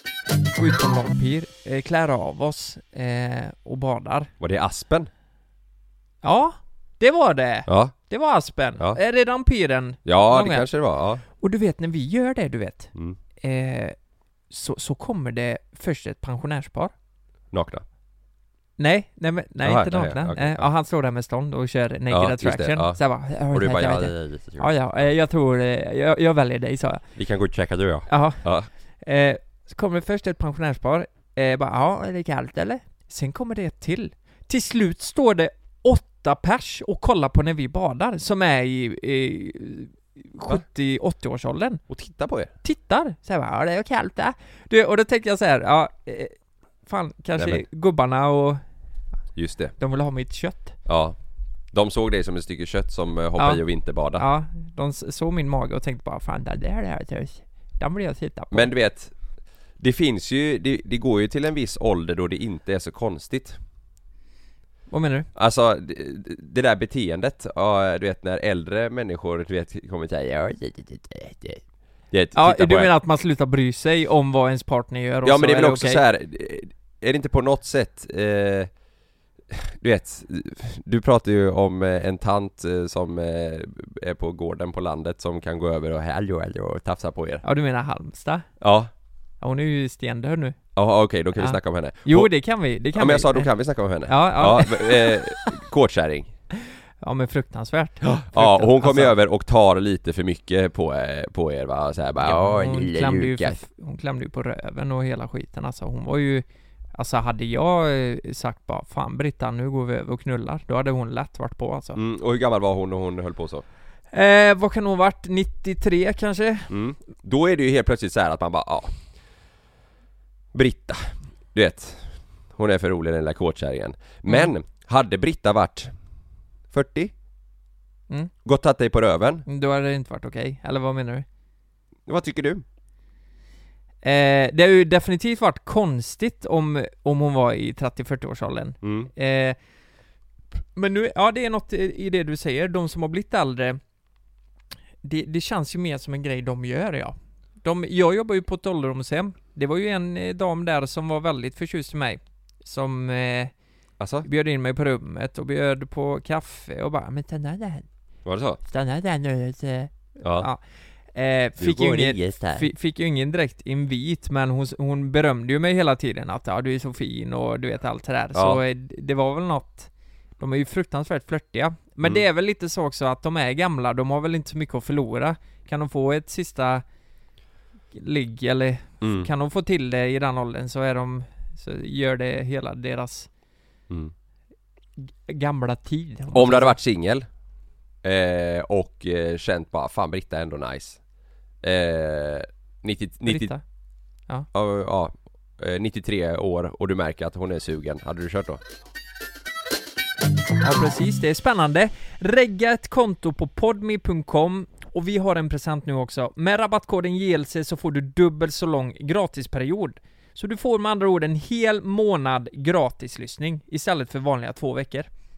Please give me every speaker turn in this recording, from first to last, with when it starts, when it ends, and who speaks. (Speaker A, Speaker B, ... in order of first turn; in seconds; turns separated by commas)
Speaker A: 0.5-4.3, Speaker B: 4.4-5.1, Speaker A: 6.2-10.7, Speaker B: 7.7-7.9, Speaker B: 10.0-11.2, Speaker A: 11.4-13.9, Speaker A: 14.5-16.9, Speaker B: 17.5-17.8, Speaker A: 18.8-27.0, Speaker B: 19.6-20.6, Speaker B: 22.1-23.0, Speaker B: 23.5-24.7, Speaker B: 27.1-28.7, Speaker A: 28.1-28.4, Speaker A: 29.0-41.8, Speaker B: 41.9-42.5, Speaker A: 42.6-46.3, Speaker A: 46.9-48.6, Speaker B: 47.4-47.6, Speaker B: 49.3-49.7, Speaker A: 49.8-50.8, Speaker B: 50.9-51.1, Speaker B: 51.7-54.2, Speaker A: 53.4-53.6, Speaker A: 54.1-58.7, Speaker B: 58.5-59.1, Speaker B: 59.8-63.6, Speaker A: 64.9-65.3, Speaker B: 65.3-72.9, Speaker A: 72.3-76.0, Speaker B: 75.2-78.7, Speaker B: 79.5-87.4, Speaker A: 87.4-88.5, Speaker B: 88.6-88.9, Speaker A: 89.4-90.5, Speaker B: 90.8-92.3, Speaker A: 91.4-93.5, Speaker B: 92.9-96.3, Speaker A: 94.0-95.5, Speaker A: 97.0-99.1, Speaker B: 98.0-103.6, Speaker A: 102.2-106.4, Speaker A: 106.9-112.0, Speaker B: 111.9-113.6, Speaker A: 114.1-116.7, Speaker B: 116.7-118.9, Speaker B: 120.5-125.9, Speaker B: 126.7-127.1, Speaker B: 128.4-129.4, Speaker A: 129.5-131.2, Speaker B: 132.1-132.6, Speaker A: 134.0-139.6, Speaker B: 138.8-139.1, Speaker A: 140.7-143.8, Speaker A: 145.0-153.5, Speaker B: 154.0-154.3, Speaker A: 154.2-157.9, Speaker B: 158.2-158.6, Speaker A: 158.6-160.6, Speaker A: 161.1-176.8, Speaker B: 161.6-162.7, Speaker B: 168.3-168.6, Speaker A: 177.9-183.3, Speaker B: 179.0-179.3, Speaker A: 185.1-186.8, Speaker B: 186.3-187.2, Speaker B: 188.0-191.0, Speaker B: 191.6-193.5, Speaker A: 193.2-193.6, Speaker B: 194.5-198.6, Speaker A: 200.6-215.1